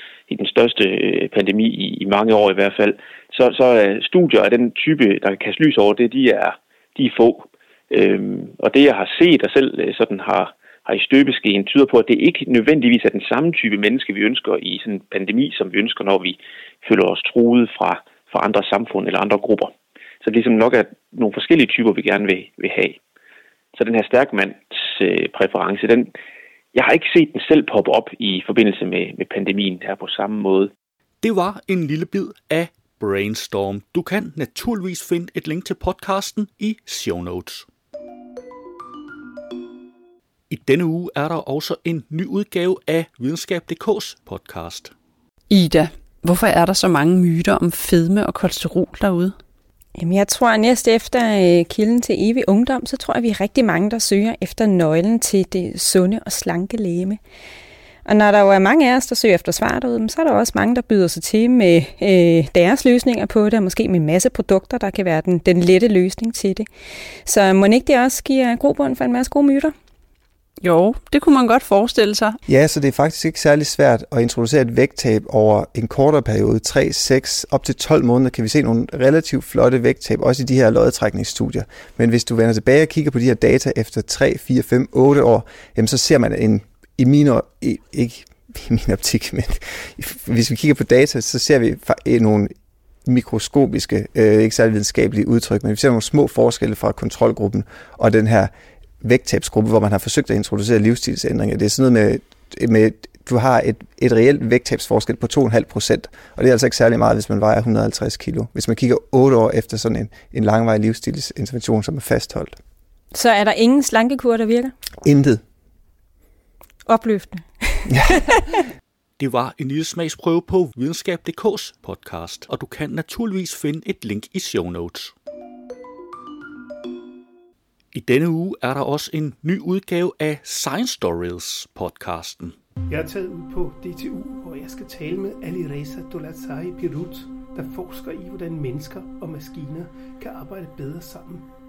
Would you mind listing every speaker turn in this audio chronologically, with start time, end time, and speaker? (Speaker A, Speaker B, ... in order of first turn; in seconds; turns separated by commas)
Speaker A: 0.3-23.0, Speaker A: 23.8-26.1, Speaker A: 26.7-30.7, Speaker B: 31.2-37.7, Speaker B: 40.5-44.9, Speaker C: 45.5-49.4, Speaker D: 50.0-57.2, Speaker D: 58.1-66.7, Speaker D: 67.2-69.7, Speaker C: 70.6-72.4, Speaker E: 72.5-92.5, Speaker E: 93.0-112.6, Speaker D: 113.1-114.7, Speaker E: 115.0-115.4, Speaker D: 116.9-118.6, Speaker B: 119.2-125.1, Speaker B: 127.9-132.6, Speaker F: 132.9-141.5